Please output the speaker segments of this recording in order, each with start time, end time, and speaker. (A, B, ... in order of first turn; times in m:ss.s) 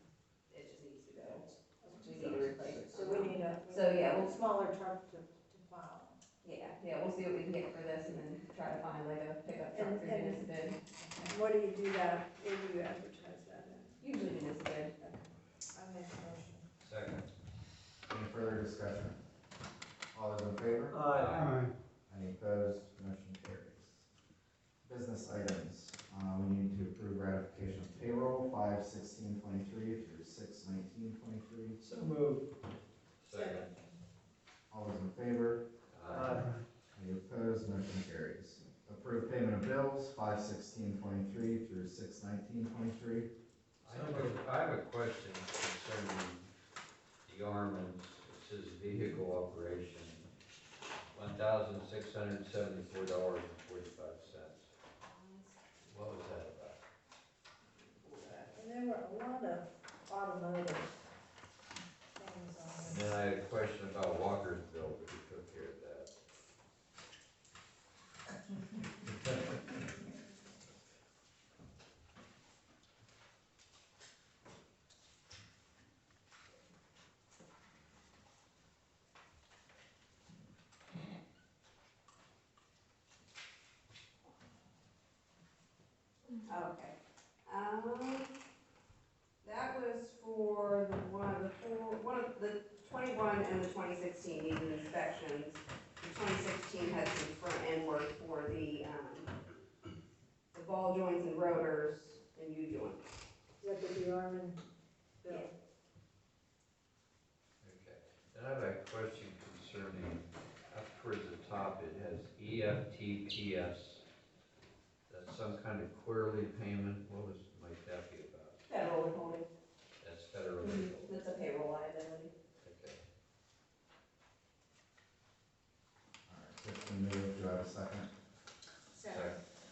0:00.5-0:04.3 A
0:01.5-0:06.2 B
0:02.2-0:03.1 C
0:06.4-0:10.8 A
0:09.7-0:14.0 B
0:14.0-0:14.9 A
0:15.0-0:16.6 B
0:16.8-0:17.2 D
0:18.1-0:19.2 E
0:20.1-0:21.0 E
0:20.9-0:21.6 C
0:21.1-0:21.6 D
0:22.1-0:24.0 E
0:24.8-0:31.8 E
0:31.8-0:32.4 C
0:33.2-0:33.7 D
0:33.3-0:33.9 B
0:34.7-0:35.6 E
0:35.9-0:36.5 D
0:36.0-0:36.6 C
0:36.9-0:43.3 E
0:43.8-0:44.4 C
0:43.8-0:46.5 D
0:47.2-0:50.3 D
0:51.1-0:54.7 D
0:55.0-0:55.9 A
0:55.9-0:56.8 D
0:58.0-0:58.5 A
0:58.5-1:00.9 B
1:02.2-1:03.1 B
1:02.8-1:06.1 D
1:26.4-1:26.9 A
1:27.4-1:28.3 A
1:29.4-1:39.3 A
1:40.5-1:43.0 A
1:43.6-1:44.6 B
1:45.2-1:45.5 B
1:47.6-1:54.0 D
1:55.1-1:58.6 D
1:58.7-1:59.4 A
2:00.0-2:01.1 D
2:00.6-2:02.3 A
2:02.6-2:03.0 D
2:06.3-2:08.1 E
2:08.9-2:09.4 B
2:09.1-2:09.4 D